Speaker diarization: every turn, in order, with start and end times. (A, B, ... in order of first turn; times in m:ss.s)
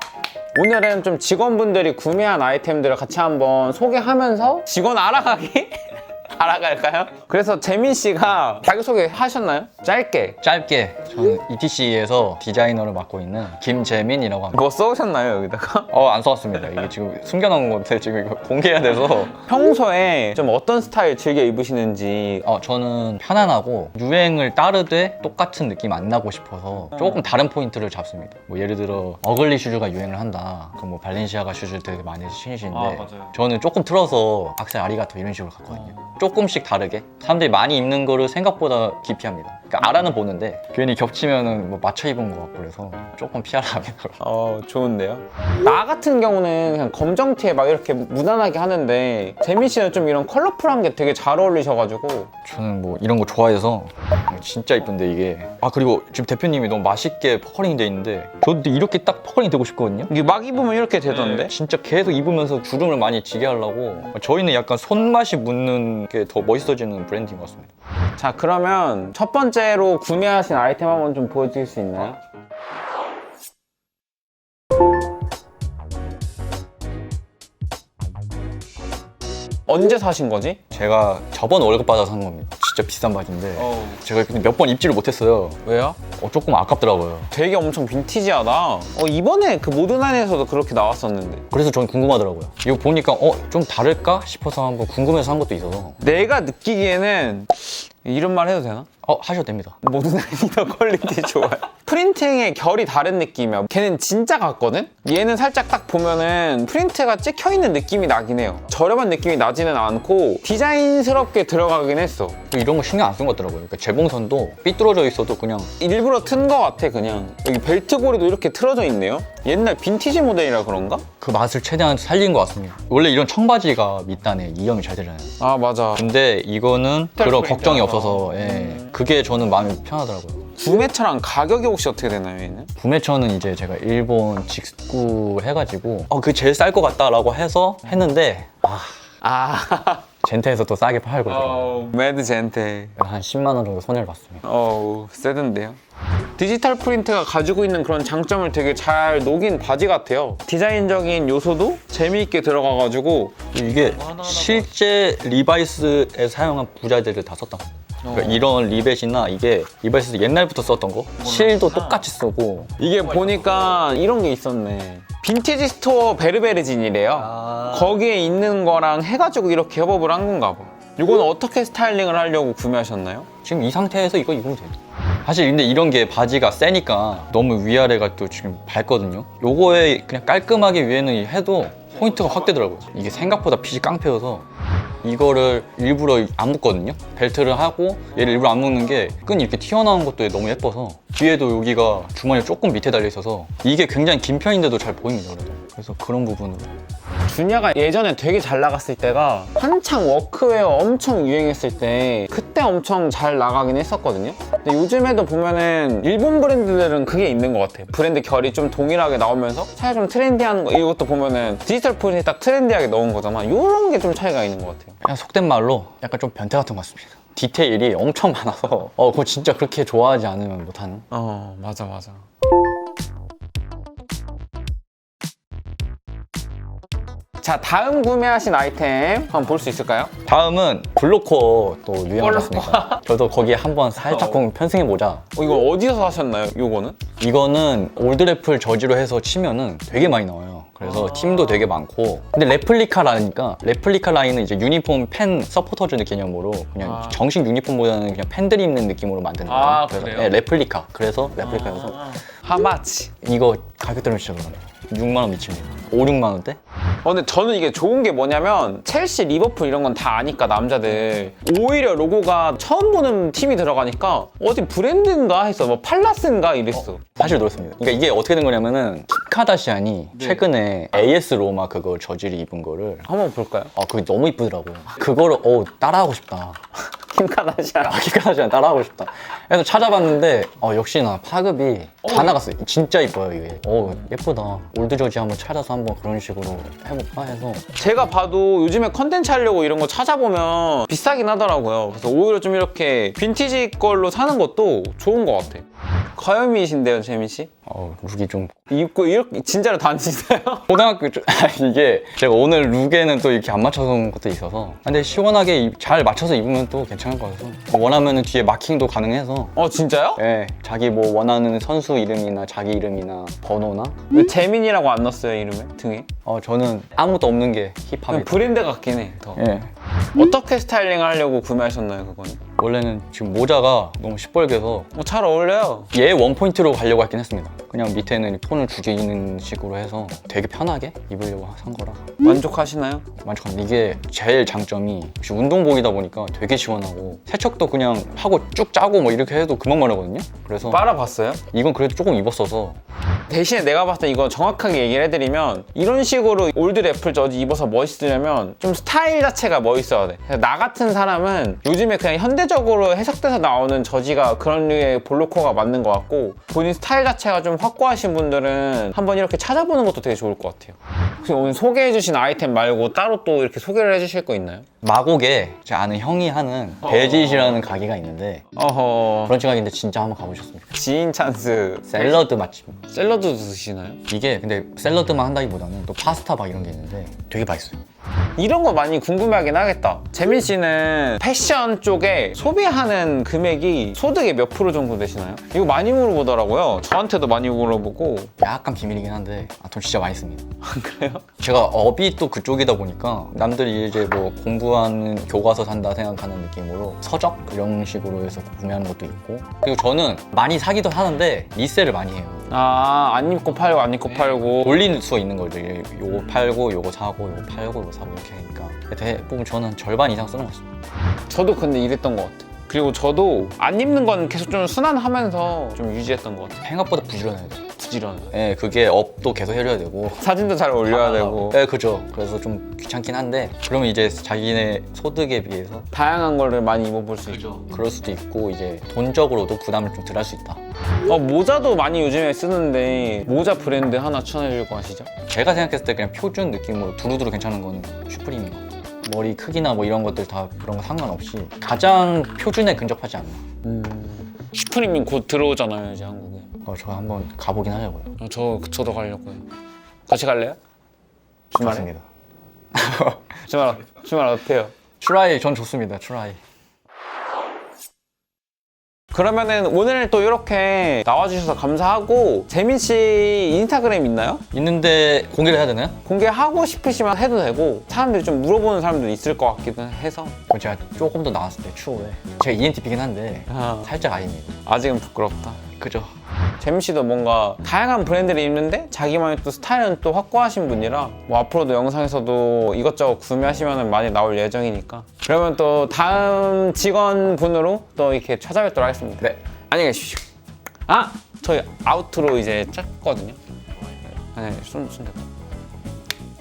0:00.5-0:10.4 A
0:10.4-0:14.6 B
0:14.5-0:15.9 A
0:15.9-0:19.4 B
0:19.5-0:22.5 A
0:22.4-0:44.2 B
0:32.7-0:33.4 A
0:44.2-0:52.3 A
0:52.4-1:00.1 B
1:00.1-1:01.5 A
1:01.2-1:07.7 B
1:08.2-1:12.2 A
1:19.7-1:20.6 A
1:20.7-1:27.3 B
1:23.6-1:24.0 A
1:25.6-1:26.0 A
1:27.3-1:31.4 A
1:31.5-1:36.0 B
1:36.0-1:38.9 A
1:39.0-1:39.8 B
1:39.8-1:52.4 A
1:52.5-1:55.7 B
1:55.8-2:01.0 A
2:01.2-2:05.4 B
2:05.4-2:06.1 A
2:05.9-2:10.5 B
2:07.2-2:08.8 A
2:10.6-2:12.7 A
2:12.8-2:19.1 B
2:19.2-2:20.1 A
2:20.2-2:21.8 B
2:21.3-2:23.0 A
2:23.0-2:24.4 B
2:24.4-2:25.8 A
2:26.4-2:33.4 A
2:33.5-2:42.8 B
2:38.0-2:38.5 A
2:41.2-2:41.6 A
2:42.8-2:53.3 A
2:53.4-3:04.4 B
3:05.0-3:16.7 B
3:17.3-3:35.0 A
3:35.0-3:41.1 B
3:41.1-3:42.2 A
3:47.4-3:50.1 A
3:50.2-3:55.2 B
3:52.2-3:53.0 A
3:54.0-3:54.4 A
3:55.4-3:57.0 A
3:57.2-4:12.2 B
4:00.8-4:01.7 A
4:06.8-4:07.2 A
4:09.5-4:10.4 A
4:11.4-4:13.1 A
4:13.2-4:16.6 B
4:17.0-4:27.2 A
4:27.2-4:33.1 B
4:30.2-4:30.4 A
4:33.1-4:33.7 A
4:33.8-4:36.6 B
4:36.9-4:38.0 A
4:37.8-4:47.7 B
4:42.0-4:42.4 A
4:47.8-4:57.5 A
4:57.7-4:58.6 B
4:58.7-5:00.7 A
5:00.7-5:09.6 B
5:09.6-5:10.2 A
5:10.2-5:14.0 B
5:14.1-5:16.1 A
5:16.2-5:18.5 B
5:18.1-5:19.4 A
5:19.4-5:19.7 B
5:20.1-5:22.4 A
5:22.6-5:24.9 B
5:24.9-5:25.9 A
5:25.9-5:32.2 B
5:32.2-5:33.1 A
5:33.2-5:40.9 B
5:40.7-5:41.4 A
5:41.5-5:42.8 B
5:43.3-6:04.7 A
6:04.8-6:08.4 B
6:06.9-6:07.4 A
6:08.6-6:09.4 A
6:09.3-6:10.7 B
6:10.7-6:12.3 A
6:11.9-6:12.9 B
6:12.9-6:14.0 A
6:14.1-6:17.8 B
6:18.4-6:28.3 A
6:28.4-6:30.5 B
6:30.6-6:31.3 A
6:31.4-6:42.5 B
6:42.5-6:44.8 A
6:44.5-6:50.6 B
6:51.3-6:56.6 A
6:56.6-6:57.7 B
6:57.8-6:58.3 A
6:58.3-7:00.3 B
7:00.2-7:01.6 A
7:00.9-7:05.9 B
7:05.9-7:07.6 A
7:07.4-7:10.6 B
7:11.0-7:15.1 A
7:15.3-7:23.4 B
7:23.6-7:26.6 A
7:26.6-7:28.2 B
7:28.2-7:29.5 A
7:30.1-7:30.6 A
7:31.5-7:31.9 A
7:31.6-7:32.0 B
7:32.7-7:33.3 B
7:33.5-7:34.7 A
7:35.0-7:36.4 B
7:39.1-7:44.4 A
7:44.5-7:46.0 B
7:46.0-7:50.4 A
7:50.5-7:54.6 B
7:53.5-7:53.9 A
7:54.7-7:55.6 A
7:55.8-7:56.1 B
7:56.6-8:10.2 A
8:10.9-8:13.4 A
8:14.3-8:15.3 A